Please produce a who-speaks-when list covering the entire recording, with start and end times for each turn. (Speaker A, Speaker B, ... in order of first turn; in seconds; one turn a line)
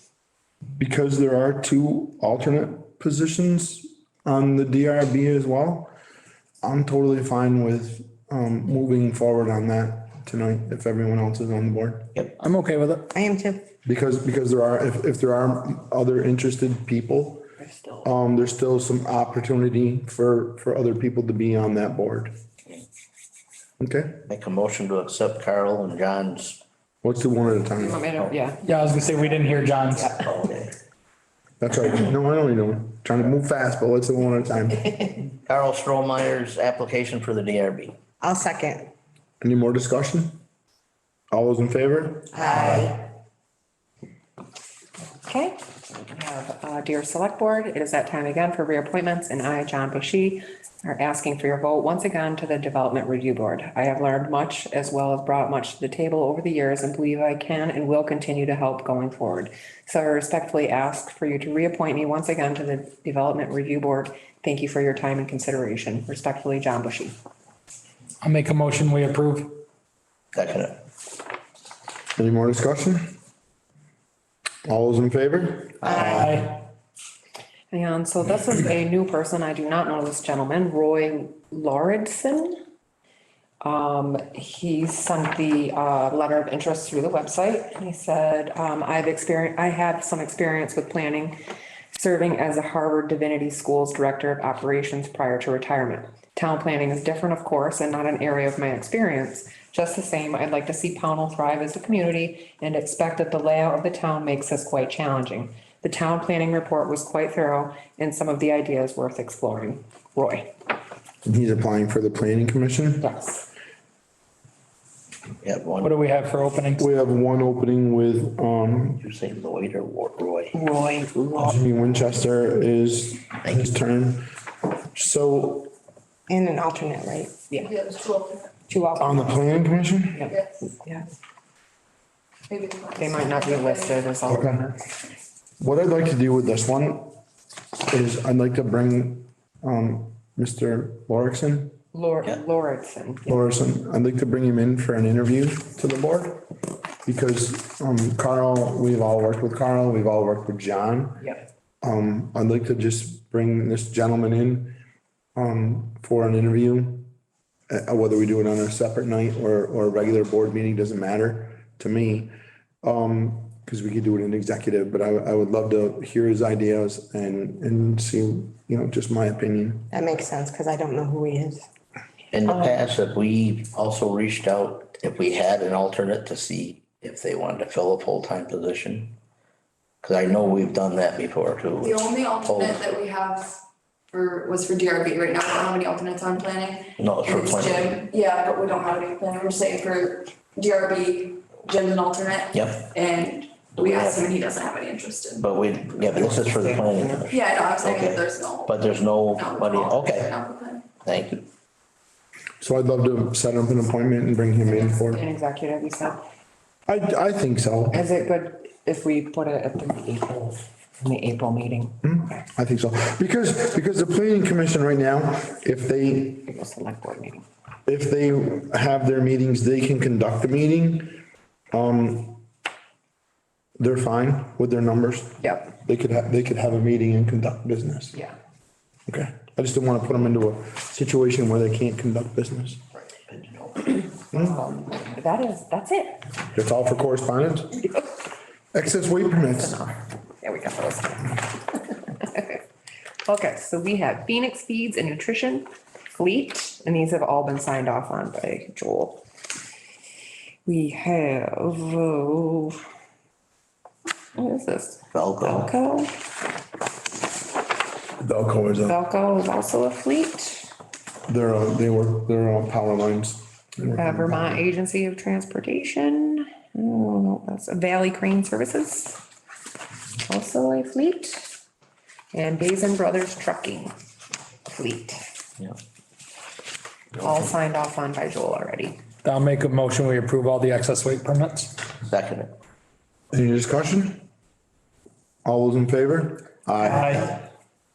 Speaker A: 0.8-5.9
Speaker A: 6.6-12.1
Speaker B: 12.4-13.1
Speaker C: 13.1-13.7
Speaker A: 13.8-17.4
Speaker D: 17.6-18.1
Speaker A: 18.0-22.3
Speaker A: 23.8-24.3
Speaker E: 24.3-26.6
Speaker A: 27.0-28.0
Speaker D: 27.7-28.6
Speaker B: 28.6-30.2
Speaker E: 30.2-30.7
Speaker A: 31.6-35.1
Speaker E: 35.4-38.0
Speaker C: 38.2-38.9
Speaker A: 39.4-40.4
Speaker A: 41.3-42.9
Speaker C: 42.3-43.0
Speaker D: 45.2-67.2
Speaker B: 68.2-69.6
Speaker E: 70.3-70.8
Speaker A: 72.2-73.2
Speaker A: 74.7-76.4
Speaker B: 75.9-76.6
Speaker D: 77.7-82.6
Speaker D: 83.6-91.3
Speaker D: 91.9-110.5
Speaker A: 111.2-113.0
Speaker D: 113.0-113.5
Speaker E: 115.4-115.9
Speaker B: 115.8-116.9
Speaker A: 116.8-119.0
Speaker E: 119.0-120.5
Speaker C: 120.5-121.5
Speaker A: 121.3-124.3
Speaker A: 124.9-125.7
Speaker C: 126.3-127.4
Speaker F: 127.5-128.6
Speaker D: 128.7-129.4
Speaker A: 128.9-130.3
Speaker F: 130.3-130.7
Speaker F: 132.5-134.1
Speaker D: 133.0-134.8
Speaker A: 134.3-134.8
Speaker A: 135.6-137.2
Speaker A: 137.9-141.8
Speaker D: 141.9-143.4
Speaker A: 143.3-146.5
Speaker A: 147.0-151.3
Speaker A: 151.8-154.8
Speaker A: 155.3-157.1
Speaker A: 157.7-170.0
Speaker C: 169.9-171.7
Speaker E: 172.3-179.1
Speaker E: 180.0-182.8
Speaker F: 181.8-195.5
Speaker E: 187.0-188.0
Speaker E: 192.5-192.9
Speaker E: 193.8-194.3
Speaker E: 195.4-200.3
Speaker D: 196.1-197.2
Speaker F: 197.2-200.9
Speaker E: 201.0-201.4
Speaker A: 202.6-205.2
Speaker D: 204.6-206.2
Speaker A: 206.9-208.0
Speaker D: 207.9-212.4
Speaker A: 212.0-216.5
Speaker D: 216.4-217.4
Speaker A: 217.8-222.4
Speaker A: 223.8-228.2
Speaker D: 225.4-225.7
Speaker A: 229.1-232.8
Speaker E: 233.3-234.0
Speaker D: 234.3-236.2
Speaker A: 234.3-234.6
Speaker A: 236.5-237.9
Speaker A: 238.7-239.9
Speaker D: 239.4-241.5
Speaker D: 242.2-242.6
Speaker D: 243.2-249.2
Speaker D: 250.7-252.8
Speaker D: 254.3-256.1
Speaker E: 255.1-255.7
Speaker A: 258.2-259.0
Speaker D: 258.8-260.7
Speaker A: 261.3-264.6
Speaker D: 263.9-269.2
Speaker D: 270.2-271.5
Speaker D: 272.3-273.9
Speaker D: 274.6-275.2
Speaker D: 277.2-279.0
Speaker B: 279.2-281.8
Speaker E: 282.0-282.5
Speaker A: 283.3-284.2
Speaker A: 285.4-287.4
Speaker B: 286.8-287.3